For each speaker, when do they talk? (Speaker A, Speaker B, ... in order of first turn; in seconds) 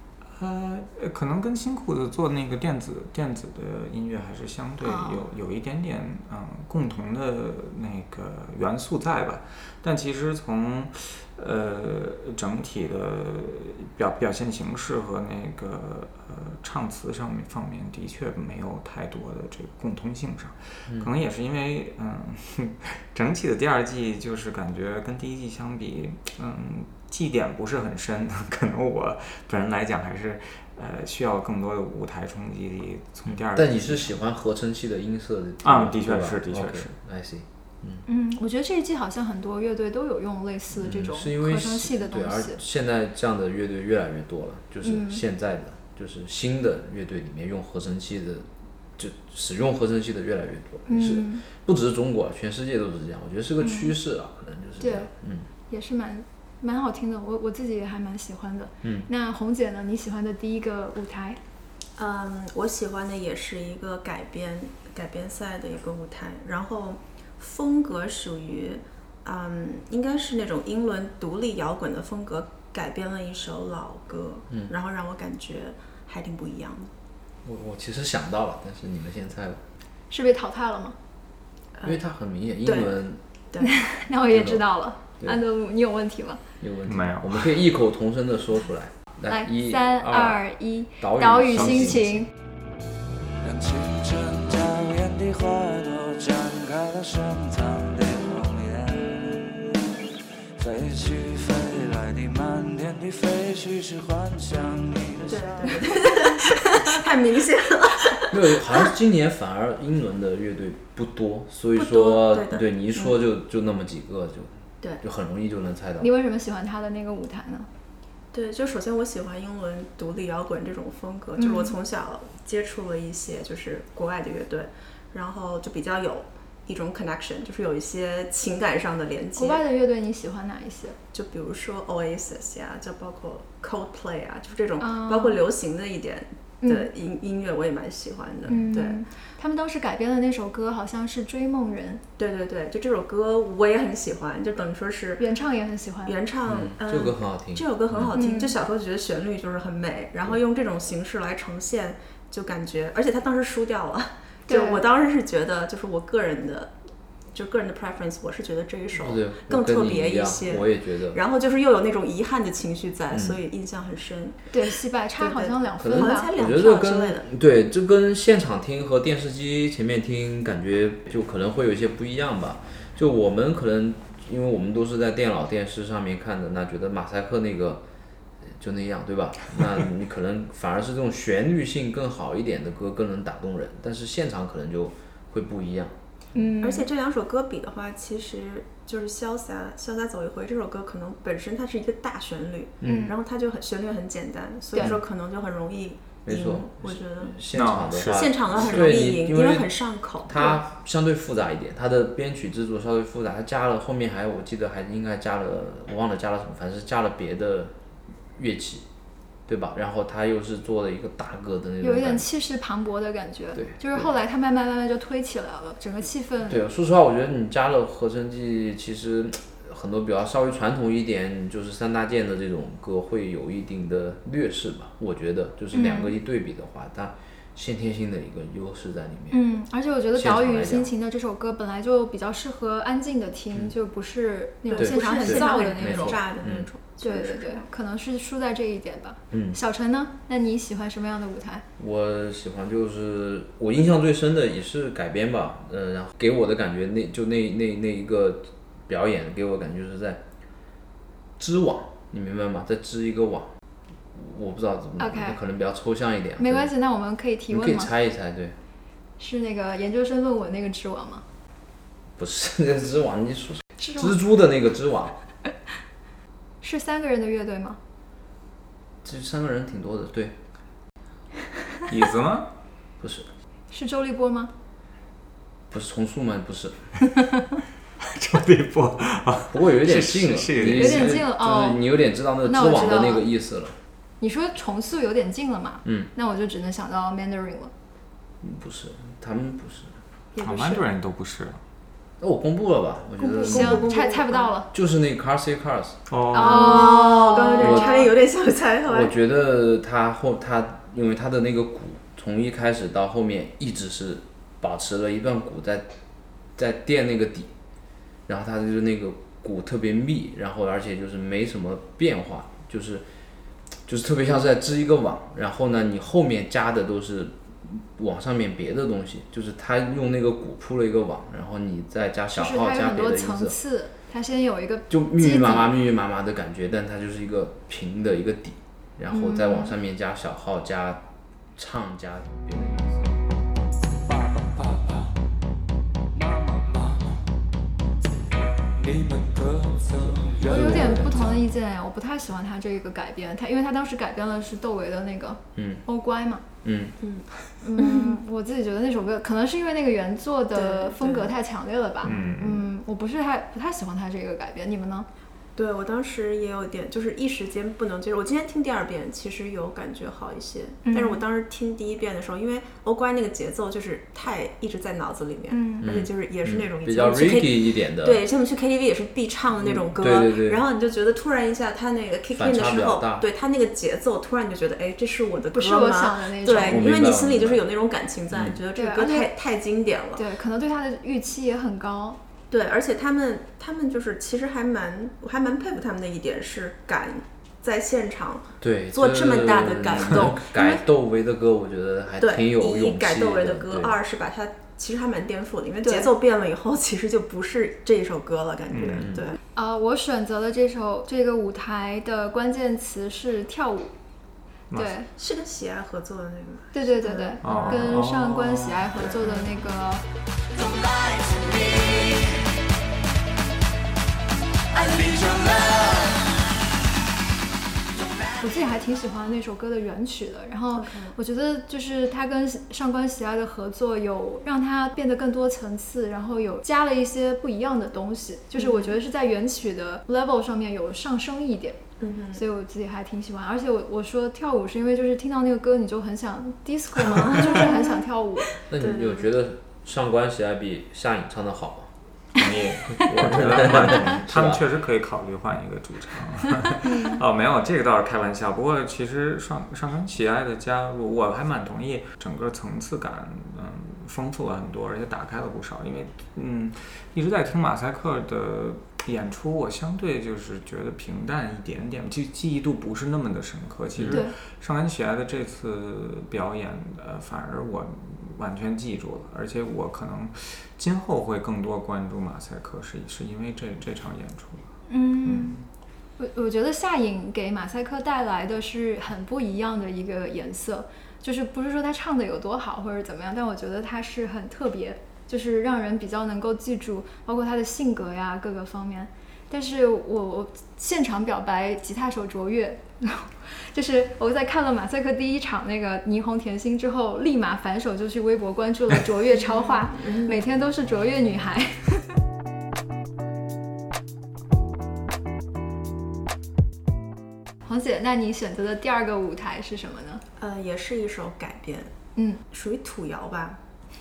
Speaker A: 0.3-34.2, 35.6-36.9, 86.8-87.5, 91.5-91.9, 197.5-199.0, 271.9-272.5, 278.0-281.2, 290.4-291.6, 296.1-296.9, 352.0-352.6, 398.7-399.1, 404.7-404.9, 407.4-409.1, 442.4-474.7, 475.2-475.6
Speaker B: 4.8-5.2, 38.1-42.6, 44.8-45.2, 50.9-51.4, 53.6-53.9, 54.8-55.1, 55.7-61.4, 80.1-81.0, 83.6-86.4, 89.3-92.3, 116.0-117.7, 121.4-121.7, 129.3-130.9, 134.8-135.4, 136.6-136.9, 138.5-142.0, 145.2-146.1, 148.1-148.5, 154.5-154.8, 164.5-166.3, 186.3-186.9, 192.8-193.1, 211.8-216.6, 225.7-226.1, 229.3-236.2, 237.0-241.6, 255.0-255.4, 256.4-257.9, 259.2-261.2, 263.8-264.1, 266.6-267.8, 273.7-274.5, 280.7-281.8, 282.4-283.2, 284.2-287.7, 293.4-294.7, 296.3-298.1, 322.3-325.7, 329.1-329.7, 340.4-346.4, 347.6-355.1, 360.8-361.2, 365.5-365.9, 375.5-376.9, 378.8-379.3, 380.1-382.2, 395.8-396.1, 399.5-403.9, 404.7-405.1, 406.7-410.0, 418.4-431.8, 432.3-438.5, 474.9-475.6, 476.2-502.1, 507.6-510.2, 512.1-512.4
Speaker C: 33.3-38.0, 40.7-55.5, 58.8-59.1, 77.4-79.6, 81.8-83.2, 84.3-84.6, 86.6-90.4, 91.0-92.1, 108.3-116.1, 146.4-148.1, 158.9-161.2, 163.1-163.4, 165.8-177.8, 178.6-185.9, 192.8-193.1, 196.2-199.7, 200.2-207.7, 208.3-208.8, 209.5-212.3, 213.5-214.2, 216.4-229.4, 230.1-230.9, 234.8-236.7, 239.3-239.6, 241.8-250.2, 251.4-253.5, 254.1-256.7, 257.5-258.6, 262.2-265.1, 269.0-270.4, 273.0-273.3, 275.7-276.8, 279.5-283.8, 288.4-290.0, 292.2-293.9, 294.7-296.0, 297.5-298.1, 298.8-305.9, 306.6-307.5, 308.3-313.1, 313.9-323.6, 324.9-331.0, 331.6-333.0, 340.3-341.4, 345.6-345.8, 346.6-346.9, 365.8-368.2, 369.6-370.6, 372.3-373.3, 376.5-377.6, 378.3-378.6, 388.6-394.0, 399.0-399.3, 438.7-441.9, 443.1-444.6, 463.9-464.2
Speaker D: 62.0-76.9, 82.6-83.0, 105.3-108.6, 111.8-113.1, 118.3-129.6, 131.1-139.0, 142.2-145.2, 146.1-156.7, 157.3-164.5, 165.2-167.2, 186.6-197.4, 198.0-200.6, 234.7-237.7, 290.4-290.8, 293.2-294.5, 296.3-299.1, 347.0-348.2, 350.5-351.4, 355.6-380.2, 382.5-390.8, 392.2-399.4, 405.1-408.0, 409.0-409.5, 420.7-421.1, 428.5-429.0, 432.0-432.4, 437.0-438.0, 438.8-439.2, 499.3-500.4, 510.4-511.9, 512.5-513.6
Speaker E: 93.4-99.7, 100.6-105.9, 333.9-335.1, 336.1-337.2, 338.8-340.9, 414.9-416.1